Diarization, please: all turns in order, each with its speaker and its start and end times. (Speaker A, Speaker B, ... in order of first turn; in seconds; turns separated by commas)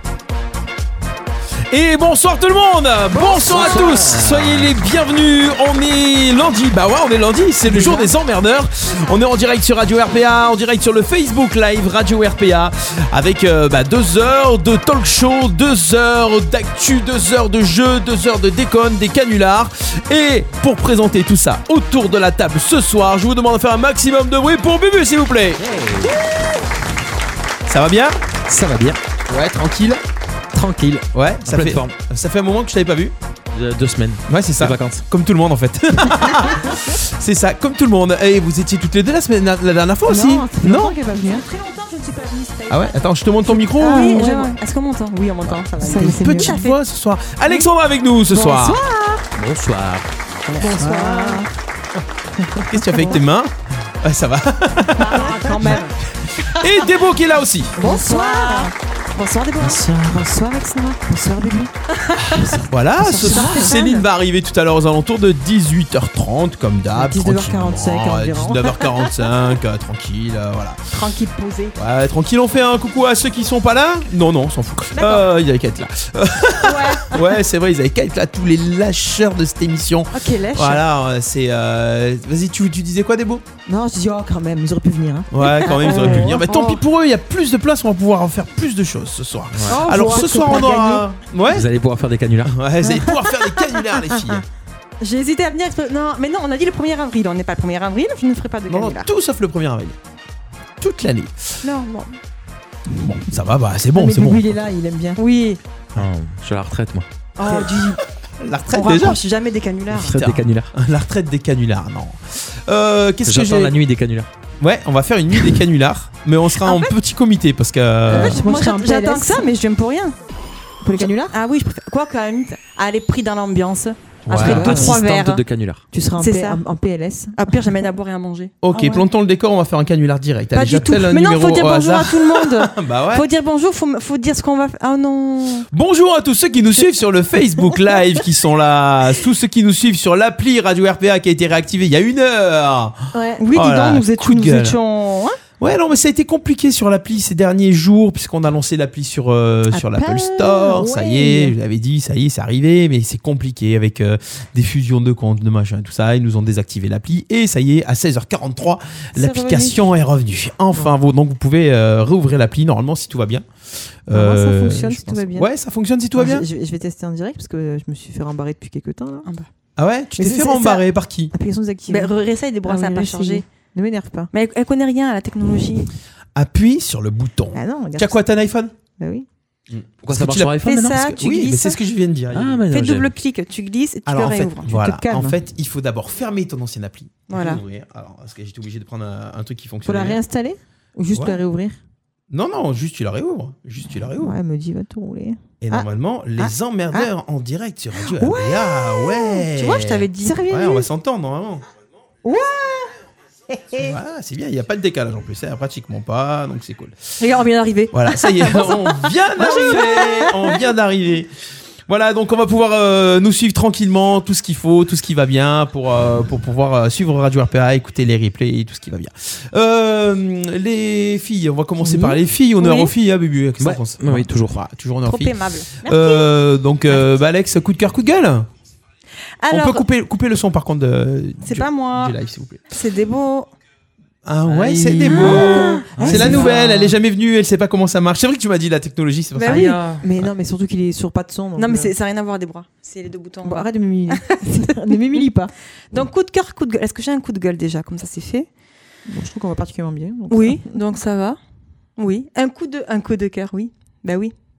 Speaker A: 1.7-25.6, Speaker B: 3.2-4.8, Speaker C: 3.4-3.9, Speaker C: 7.6-8.1, Speaker B: 25.6-26.2, Speaker A: 27.7-28.2, Speaker B: 28.5-29.0, Speaker A: 29.3-30.0, Speaker B: 30.5-31.9, Speaker A: 31.1-33.1, Speaker B: 33.5-35.0, Speaker A: 34.3-41.0, Speaker C: 36.1-36.8, Speaker C: 40.1-44.5, Speaker D: 41.1-41.4, Speaker A: 42.7-44.2, Speaker D: 43.8-46.7, Speaker C: 45.5-46.8, Speaker A: 45.8-48.8, Speaker C: 48.3-49.2, Speaker B: 49.4-50.1, Speaker C: 50.5-51.5, Speaker D: 50.6-51.4, Speaker A: 50.8-51.2, Speaker C: 52.4-53.3, Speaker A: 52.7-53.5, Speaker A: 54.0-55.8, Speaker D: 55.0-56.0, Speaker C: 55.0-55.8, Speaker A: 56.4-57.8, Speaker C: 57.8-58.7, Speaker D: 57.8-59.8, Speaker C: 59.6-61.7, Speaker D: 61.9-62.6, Speaker A: 62.4-70.9, Speaker C: 63.0-64.1, Speaker D: 63.2-63.8, Speaker C: 66.9-68.9, Speaker D: 70.9-71.8, Speaker A: 71.8-83.5, Speaker C: 75.0-75.3, Speaker D: 76.6-77.1, Speaker C: 76.7-77.3, Speaker D: 80.1-80.8, Speaker C: 83.7-86.5, Speaker A: 85.3-91.7, Speaker D: 85.6-86.8, Speaker B: 89.5-89.8, Speaker D: 89.7-91.0, Speaker C: 89.8-91.1, Speaker B: 91.5-92.6, Speaker A: 92.5-94.4, Speaker C: 92.8-94.4, Speaker D: 95.0-99.1, Speaker A: 98.7-100.0, Speaker A: 100.8-101.4, Speaker D: 101.6-102.2, Speaker C: 102.9-103.3, Speaker A: 103.0-104.5, Speaker C: 103.9-105.2, Speaker D: 105.2-105.6, Speaker B: 106.0-107.1, Speaker D: 107.4-108.0, Speaker A: 107.5-107.8, Speaker A: 108.4-109.2, Speaker D: 108.7-110.2, Speaker B: 110.0-110.7, Speaker A: 110.0-113.7, Speaker B: 113.2-114.3, Speaker A: 114.6-118.4, Speaker D: 116.6-116.9, Speaker C: 118.1-119.5, Speaker D: 118.2-120.2, Speaker C: 120.8-121.4, Speaker D: 121.0-125.4, Speaker A: 124.3-124.7, Speaker C: 124.3-125.0, Speaker B: 124.3-125.8, Speaker C: 125.9-127.8, Speaker D: 126.2-126.6, Speaker D: 127.4-128.9, Speaker A: 128.6-133.2, Speaker C: 128.7-129.0, Speaker D: 130.5-135.7, Speaker A: 135.7-144.8, Speaker C: 143.1-143.4, Speaker D: 143.4-145.4, Speaker A: 145.6-163.5, Speaker C: 149.7-151.6, Speaker C: 159.2-159.9, Speaker A: 164.1-166.5, Speaker C: 164.1-165.5, Speaker C: 166.2-169.3, Speaker A: 169.8-171.3, Speaker C: 170.2-172.1, Speaker D: 171.9-173.4, Speaker C: 172.6-174.3, Speaker D: 174.3-175.9, Speaker A: 176.3-178.7, Speaker C: 177.5-178.2, Speaker C: 179.0-179.3, Speaker A: 179.7-182.6, Speaker B: 180.1-181.0, Speaker D: 180.6-181.8, Speaker B: 182.3-183.1, Speaker D: 182.7-184.7, Speaker A: 184.1-190.2, Speaker C: 184.7-185.4, Speaker D: 187.3-187.6, Speaker C: 189.8-191.8, Speaker A: 191.1-191.4, Speaker A: 192.3-194.3, Speaker C: 193.8-197.1, Speaker A: 195.6-201.7, Speaker C: 198.0-199.5, Speaker D: 199.5-200.4, Speaker C: 200.2-200.9, Speaker C: 202.2-202.9, Speaker C: 203.5-204.0, Speaker A: 203.8-207.0, Speaker D: 207.2-210.3, Speaker A: 207.9-211.3, Speaker A: 211.9-228.5, Speaker C: 221.8-222.2, Speaker D: 222.6-222.9, Speaker B: 223.6-224.6, Speaker D: 225.1-226.3, Speaker D: 229.4-229.8, Speaker A: 229.5-232.6, Speaker D: 231.4-232.2, Speaker D: 232.7-233.5, Speaker A: 234.2-239.8, Speaker B: 234.5-236.6, Speaker C: 235.0-236.9, Speaker D: 239.4-239.7, Speaker B: 239.4-240.0, Speaker C: 239.9-241.9, Speaker D: 241.6-245.0, Speaker C: 243.4-245.5, Speaker D: 245.9-248.5, Speaker C: 249.1-250.8, Speaker D: 250.3-251.4, Speaker D: 252.0-254.3